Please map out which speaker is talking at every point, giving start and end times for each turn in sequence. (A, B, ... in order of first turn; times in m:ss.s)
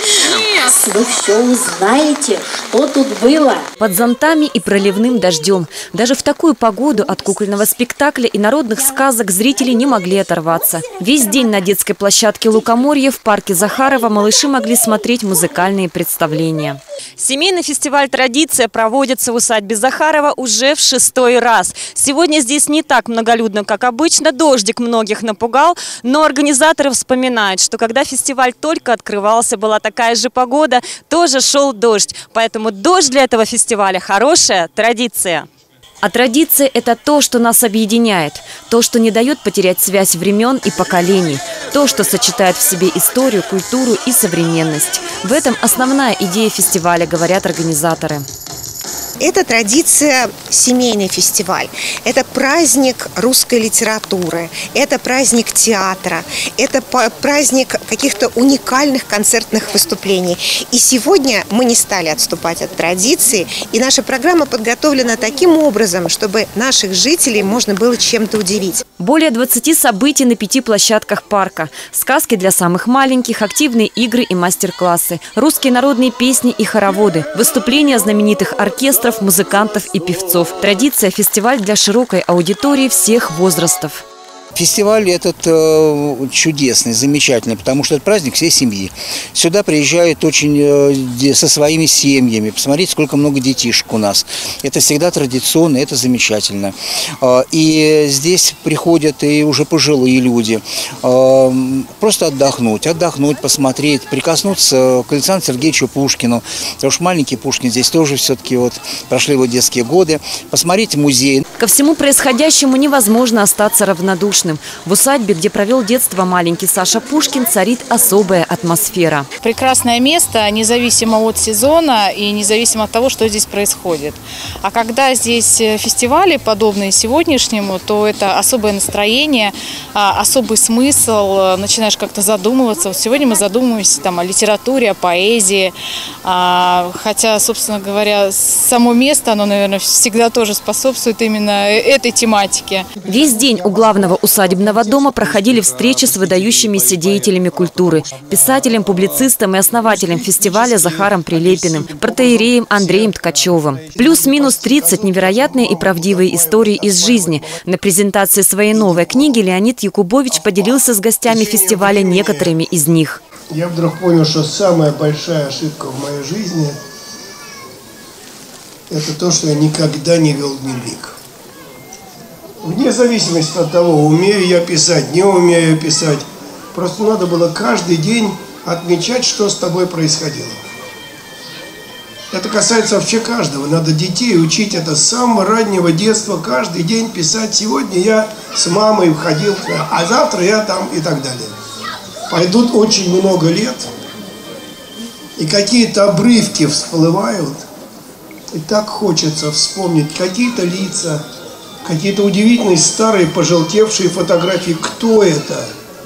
0:00.7-0:03.6 A
0:03.8-0:35.4 B
0:36.0-0:48.2 B
0:49.2-1:08.8 C
1:09.0-1:24.0 B
1:24.6-1:51.4 D
1:51.6-1:59.3 B
1:59.4-2:15.7 E
2:16.2-2:22.9 E
2:23.1-2:43.2 B
2:29.8-2:37.6 F
2:38.7-2:39.4 F
2:40.3-2:42.6 F
2:43.5-2:46.8 F
2:48.9-2:51.2 F
2:52.6-3:00.6 F
3:02.3-3:11.6 F
3:12.3-3:13.9 F
3:15.4-3:17.6 F
3:18.5-3:21.2 F
3:21.8-3:25.7 F